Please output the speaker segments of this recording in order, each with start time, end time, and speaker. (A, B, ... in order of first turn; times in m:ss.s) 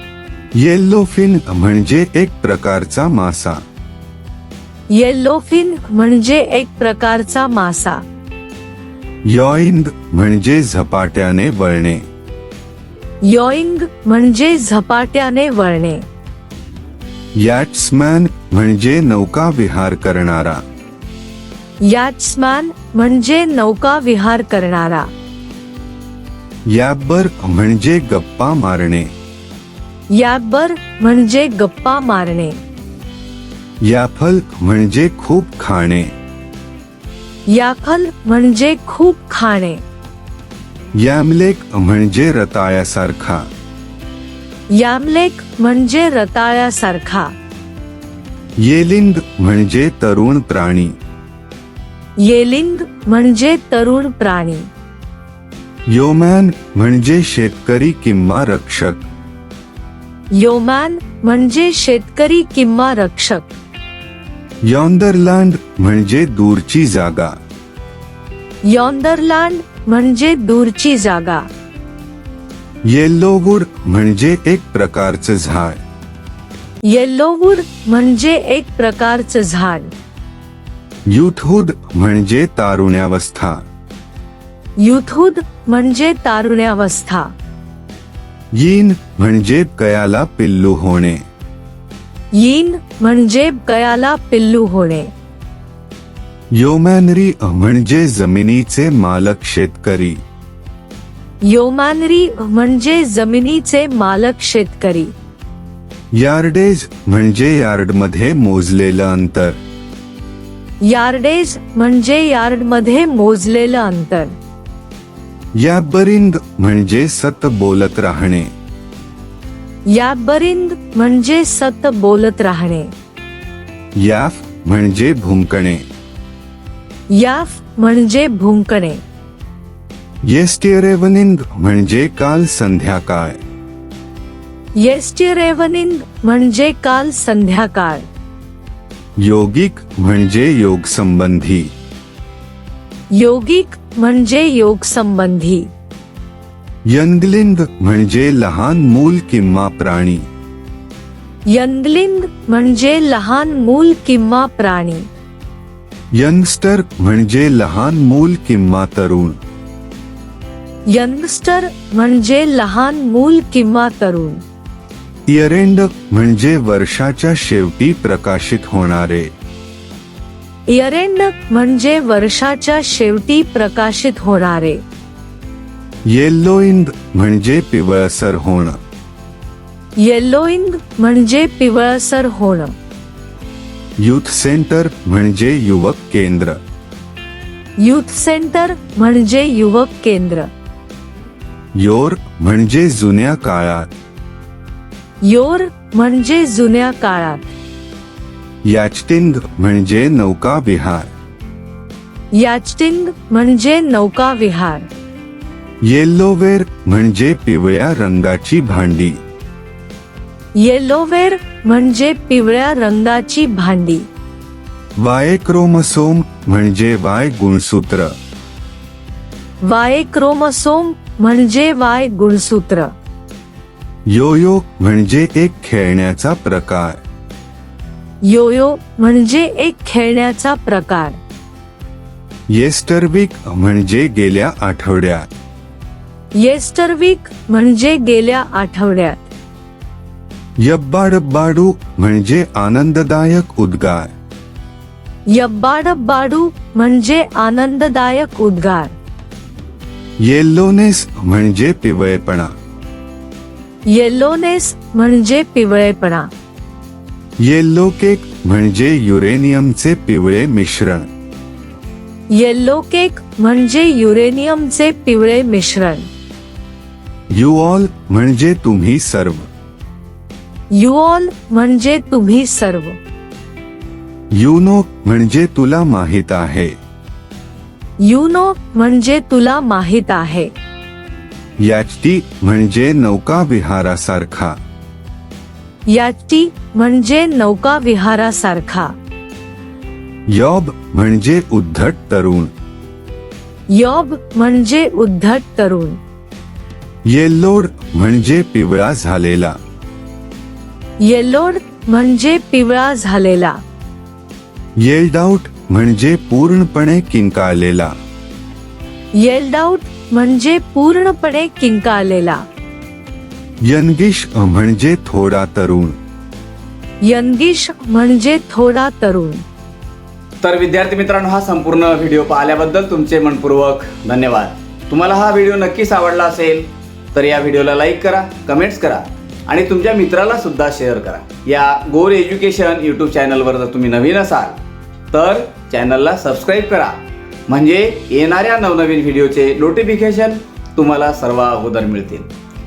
0:00.6-0:03.6 A
0:04.9-0:08.0 B
0:09.3-0:12.0 A
0:13.2-0:16.0 B
0:17.4-0:20.6 A
0:21.8-0:25.1 B
0:26.7-0:29.1 A
0:30.1-0:32.6 B
0:33.8-0:36.1 A
0:37.5-0:39.8 B
0:41.0-0:43.5 A
0:44.7-0:47.3 B
0:48.6-0:51.0 A
0:52.2-0:54.7 B
0:55.9-0:59.1 A
1:00.3-1:03.6 B
1:04.6-1:07.3 A
1:08.7-1:11.4 B
1:12.9-1:15.8 A
1:16.9-1:19.9 B
1:21.1-1:23.6 A
1:24.8-1:27.3 B
1:28.6-1:31.2 A
1:32.3-1:35.1 B
1:36.6-1:40.2 A
1:41.4-1:45.1 B
1:46.2-1:49.6 A
1:50.8-1:54.3 B
1:55.6-1:58.5 A
1:59.9-2:02.9 B
2:04.0-2:05.8 A
2:07.1-2:09.0 B
2:10.3-2:13.4 A
2:14.8-2:18.1 B
2:19.2-2:21.7 A
2:23.1-2:25.7 B
2:26.9-2:30.3 A
2:31.5-2:35.1 B
2:36.2-2:39.4 A
2:40.9-2:44.4 B
2:45.3-2:49.3 A
2:50.7-2:54.8 B
2:56.1-2:58.8 A
3:00.0-3:02.7 B
3:04.0-3:06.6 A
3:07.8-3:10.5 B
3:11.8-3:13.9 A
3:15.2-3:17.6 B
3:18.6-3:21.1 A
3:22.3-3:24.9 B
3:25.8-3:29.2 A
3:30.6-3:34.1 B
3:35.0-3:38.1 A
3:39.6-3:42.9 B
3:44.1-3:47.0 A
3:48.2-3:51.2 B
3:52.5-3:55.3 A
3:56.4-3:59.3 B
4:00.6-4:04.1 A
4:05.3-4:09.0 B
4:10.2-4:12.5 A
4:13.9-4:16.3 B
4:17.4-4:21.1 A
4:22.3-4:26.1 B
4:27.3-4:29.5 A
4:30.7-4:33.0 B
4:34.3-4:36.7 A
4:38.0-4:40.5 B
4:41.6-4:44.6 A
4:45.9-4:48.9 B
4:50.3-4:52.5 A
4:53.7-4:56.0 B
4:57.1-4:59.6 A
5:01.0-5:03.6 B
5:04.8-5:07.9 A
5:09.2-5:12.4 B
5:13.6-5:16.0 A
5:17.0-5:19.4 B
5:20.4-5:34.6 C
5:35.1-5:37.0 C
5:37.5-5:42.3 C